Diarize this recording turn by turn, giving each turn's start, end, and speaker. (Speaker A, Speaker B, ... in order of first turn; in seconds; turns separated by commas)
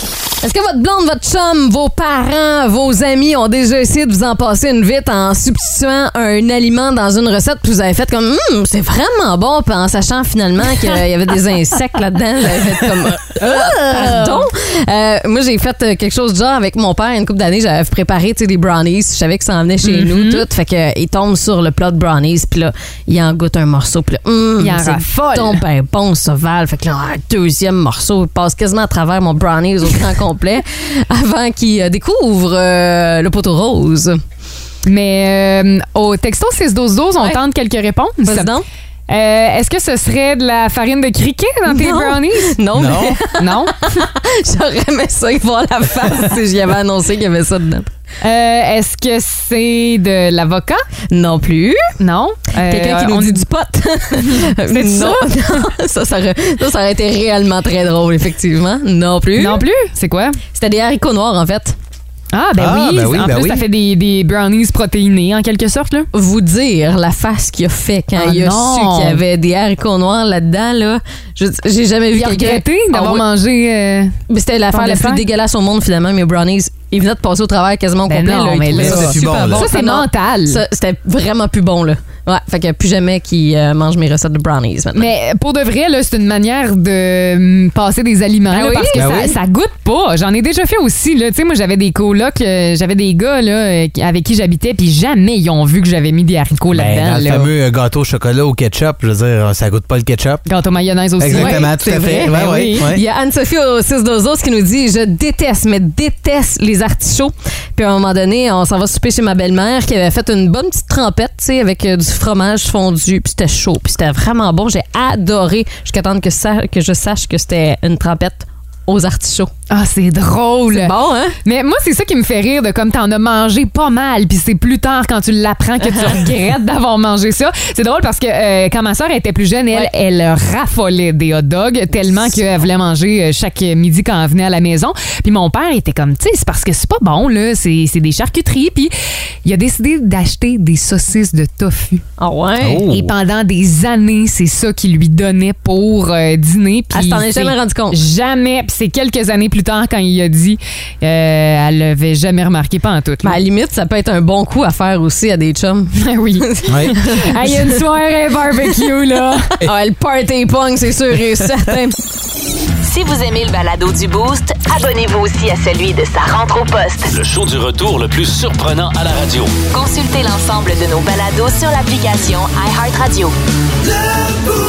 Speaker A: 0.4-34.2, Speaker B: 13.4-14.4, Speaker B: 19.8-20.4, Speaker B: 24.6-25.6, Speaker B: 34.8-38.5, Speaker A: 38.2-38.6, Speaker B: 39.1-43.8, Speaker A: 41.7-47.9, Speaker C: 42.7-43.2, Speaker B: 48.2-50.8, Speaker A: 51.1-51.8, Speaker B: 52.0-53.5, Speaker A: 52.6-59.6, Speaker B: 54.1-55.6, Speaker B: 59.3-60.4, Speaker A: 60.5-61.8, Speaker B: 62.3-66.1, Speaker C: 62.6-63.6, Speaker A: 66.1-73.2, Speaker B: 68.1-69.2, Speaker B: 72.1-75.2, Speaker A: 74.3-85.1, Speaker B: 78.1-80.6, Speaker C: 78.7-79.7, Speaker B: 84.9-97.5, Speaker A: 88.5-89.1, Speaker C: 88.9-89.4, Speaker C: 96.7-100.4, Speaker B: 100.4-102.9, Speaker C: 101.2-103.0, Speaker A: 101.3-119.5, Speaker B: 119.7-138.9, Speaker A: 120.7-121.4, Speaker B: 139.4-142.0, Speaker A: 142.2-142.8, Speaker C: 142.6-143.1, Speaker B: 142.9-153.4, Speaker A: 146.9-148.0, Speaker A: 153.2-157.8, Speaker B: 155.9-159.5, Speaker C: 156.7-157.0, Speaker A: 159.6-161.9, Speaker D: 162.8-167.1, Speaker E: 167.1-169.5, Speaker D: 169.7-173.3